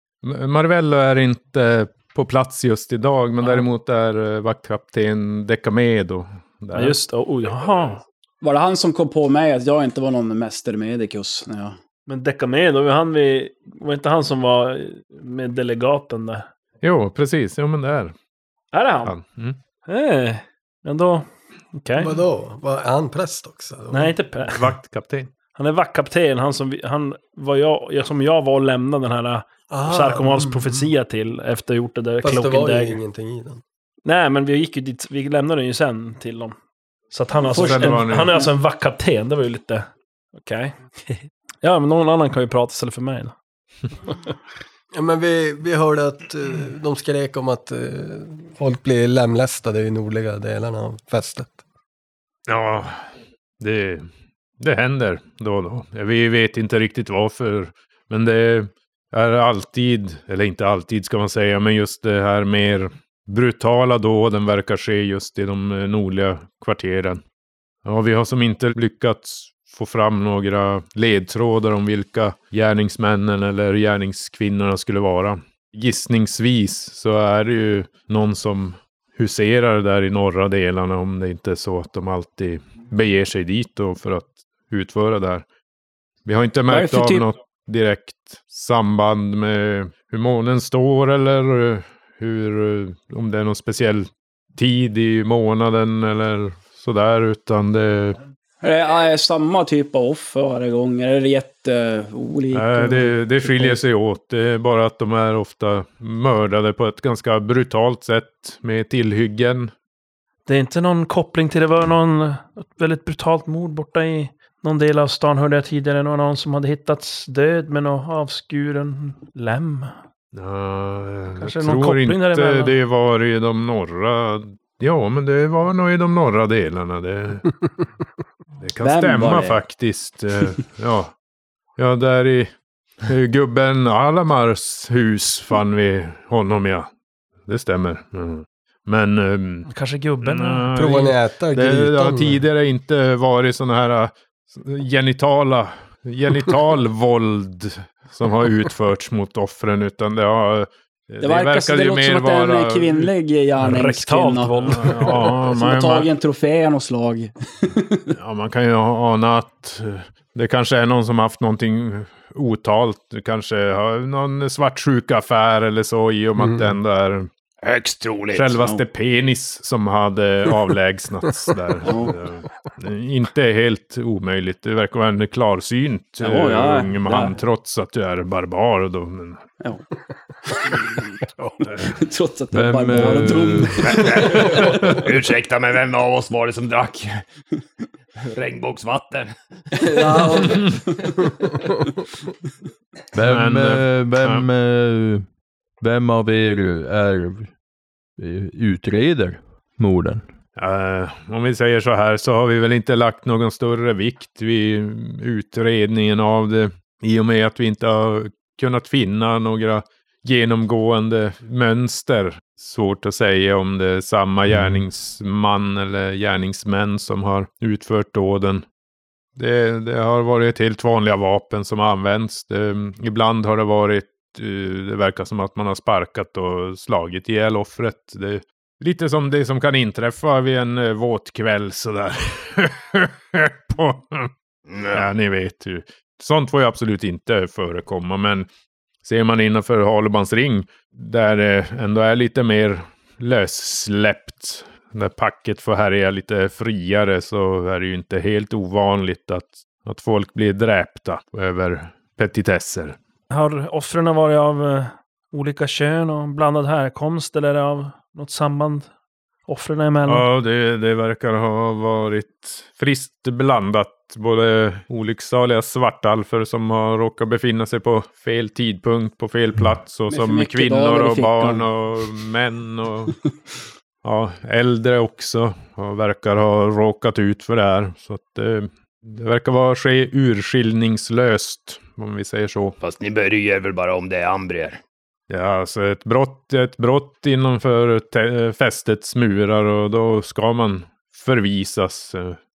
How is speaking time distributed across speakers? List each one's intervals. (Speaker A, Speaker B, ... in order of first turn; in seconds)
Speaker A: 0.2-7.0, 16.8-18.1, 19.1-19.6, 24.5-25.3, 37.5-38.4, 52.5-53.0, 53.6-54.1, 54.6-67.2, 67.8-85.5, 86.3-98.2, 102.5-109.7, 120.3-127.5, 128.6-131.1, 131.8-132.5, 133.0-136.9, 137.5-139.7, 140.2-153.1, 154.6-156.1, 158.1-167.3, 168.3-179.4, 181.7-182.0, 184.1-184.9, 190.5-190.8, 193.2-194.4, 200.6-218.6, 219.4-234.3, 234.9-238.5, 239.0-253.0, 260.1-273.1, 274.0-282.7, 285.3-292.4
Speaker B: 3.4-3.7, 6.7-8.0, 12.1-16.4, 18.7-19.2, 19.9-22.1, 23.9-24.7, 25.6-33.0, 34.0-36.6, 37.1-43.3, 110.5-119.9, 121.4-122.7, 139.7-140.7, 153.6-155.4, 253.3-258.9, 259.5-260.3
Speaker C: 8.4-11.8, 37.5-38.1, 86.7-87.3, 98.6-103.8, 128.8-129.6, 151.2-158.1, 171.8-172.2, 176.2-177.4, 180.5-185.1, 189.7-191.5, 270.1-271.7
Speaker D: 22.0-24.1, 29.7-30.9, 32.2-33.6, 44.9-51.6, 140.7-142.4, 166.4-166.7
Speaker E: 167.6-168.5, 183.8-187.2, 188.2-190.2, 234.7-235.1, 282.8-284.8
Speaker F: 182.5-184.1, 193.1-195.3, 195.8-197.5, 198.2-200.2